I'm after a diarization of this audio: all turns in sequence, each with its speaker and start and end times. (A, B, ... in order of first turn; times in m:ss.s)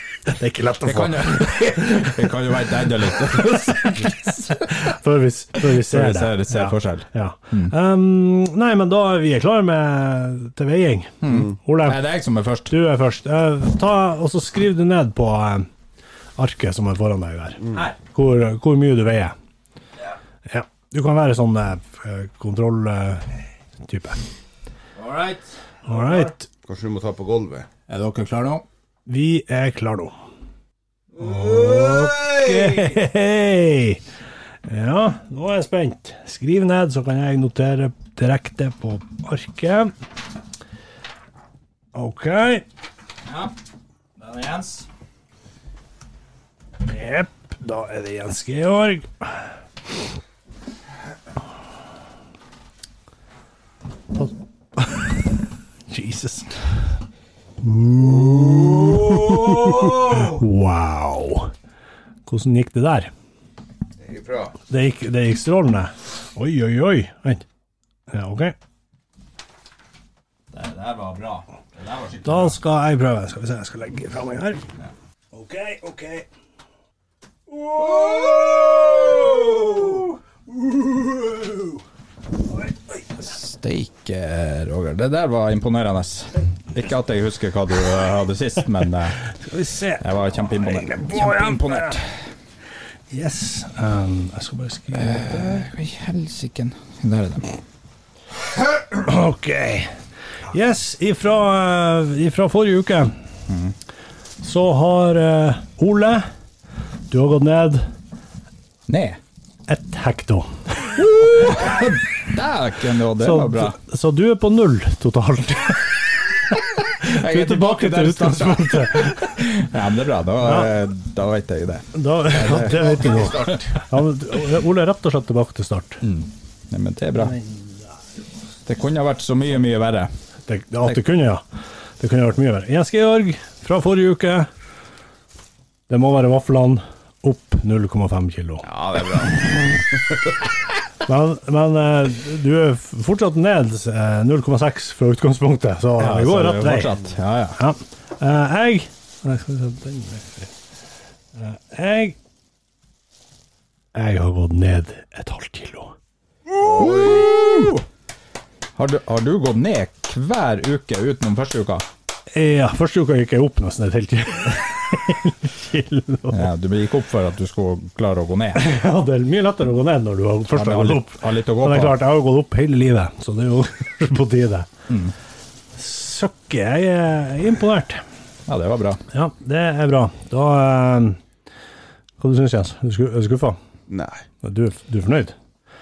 0:00.3-0:02.2 A
0:00.8-0:04.7 B
0:03.2-0:12.0 A
0:05.6-0:07.7 B
0:11.2-0:12.7 B
0:11.3-0:11.5 C
0:12.7-0:15.7 A
0:16.4-0:19.3 A
0:20.4-0:23.3 A
0:23.8-0:24.2 A
0:25.0-0:26.3 B
0:25.8-0:26.4 A
0:26.6-0:27.7 C
0:27.9-0:28.6 B
0:29.0-0:30.1 A
0:31.1-0:33.0 B
0:31.2-0:34.0 A
0:34.6-0:39.9 A
0:41.9-0:42.6 A
0:43.2-0:43.5 B
0:44.2-0:44.9 B
0:46.8-0:49.5 A
0:54.1-0:55.2 A
0:55.9-0:56.6 A
0:57.6-1:01.5 A
0:58.0-1:00.3 B
1:02.3-1:03.1 A
1:04.0-1:04.5 C
1:04.7-1:07.4 A
1:08.1-1:08.6 A
1:10.5-1:12.6 B
1:12.2-1:14.6 A
1:15.3-1:16.3 A
1:17.6-1:18.1 A
1:17.7-1:20.0 B
1:19.7-1:20.0 A
1:20.9-1:21.8 A
1:22.7-1:23.0 A
1:23.2-1:29.2 B
1:29.3-1:32.0 A
1:30.0-1:32.3 B
1:33.1-1:35.6 A
1:34.9-1:37.5 B
1:38.7-1:39.9 A
1:40.5-1:43.1 A
1:43.5-1:43.7 B
1:44.4-1:46.3 A
1:47.1-1:47.9 A
1:48.9-1:49.2 B
1:49.7-1:50.9 A
1:50.9-1:53.8 B
1:53.2-1:56.0 A
1:57.0-2:03.0 B
1:57.0-1:59.4 A
2:00.4-2:00.7 A
2:01.9-2:06.0 A
2:02.4-2:03.8 C
2:06.0-2:07.4 B
2:07.2-2:07.7 A
2:08.6-2:10.1 B
2:10.5-2:11.4 A
2:12.0-2:14.5 A
2:15.9-2:18.7 A
2:18.6-2:20.3 C
2:21.0-2:27.0 A
2:26.0-2:27.6 B
2:27.6-2:30.5 A
2:31.4-2:32.2 A
2:33.9-2:36.0 A
2:36.5-2:37.8 B
2:36.6-2:37.4 C
2:38.8-2:41.8 B
2:42.3-2:46.5 A
2:46.3-2:48.6 B
2:48.5-2:54.7 A
2:50.5-2:52.0 B
2:54.9-2:55.1 B
2:55.8-2:58.0 A
2:58.5-2:59.0 B
2:59.1-3:01.2 A
3:02.2-3:03.6 A
3:03.9-3:04.2 C
3:04.4-3:05.3 A